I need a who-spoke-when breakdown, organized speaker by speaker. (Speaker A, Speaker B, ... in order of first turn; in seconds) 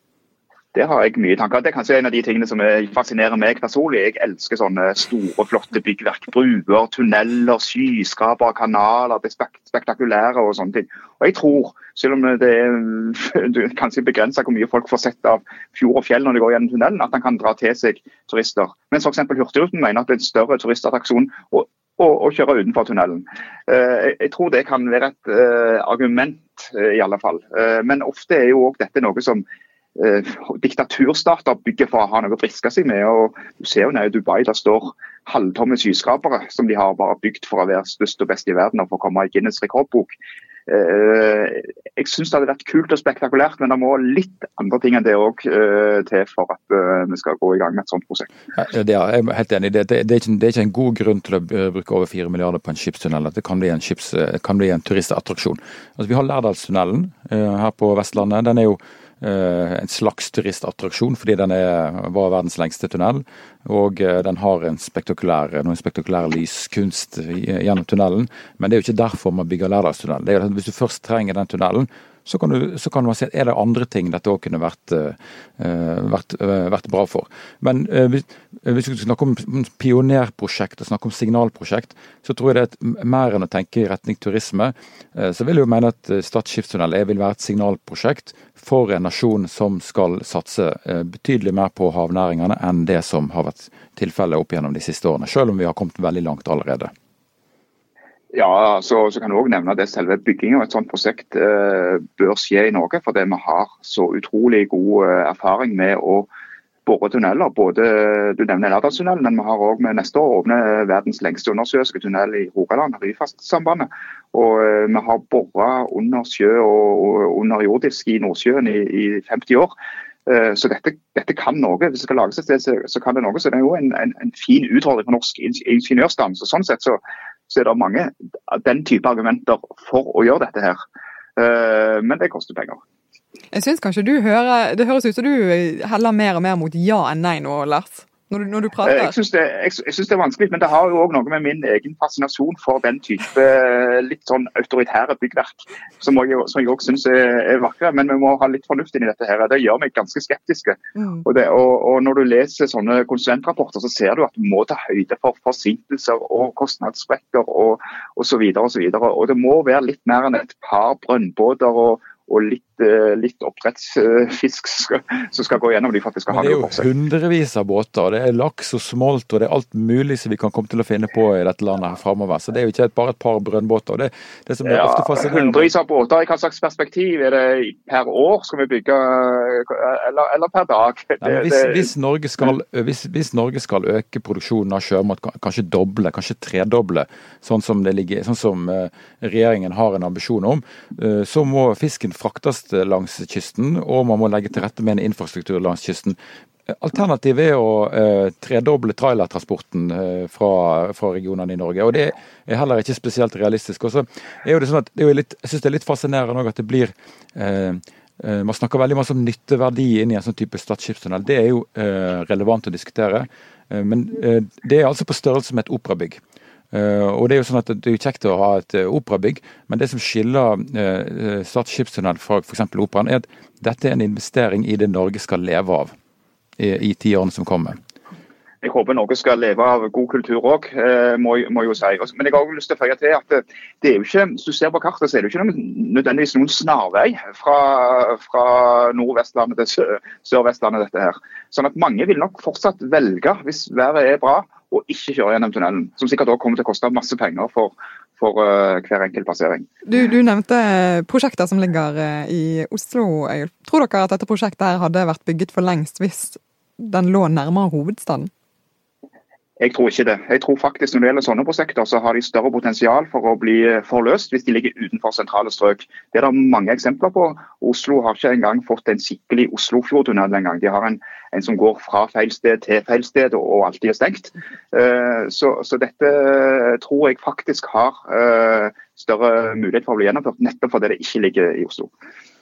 Speaker A: 0.7-29.4, 30.0-40.1, 40.7-48.3, 98.3-106.3, 106.9-119.7, 120.3-130.8, 131.4-132.8, 138.8-166.8, 174.7-181.9, 228.6-249.7, 259.6-281.9
Speaker B: 48.5-96.9, 166.3-175.7, 181.2-196.2, 196.7-216.2, 216.7-225.9, 226.6-227.8
Speaker C: 133.5-139.1, 249.8-258.3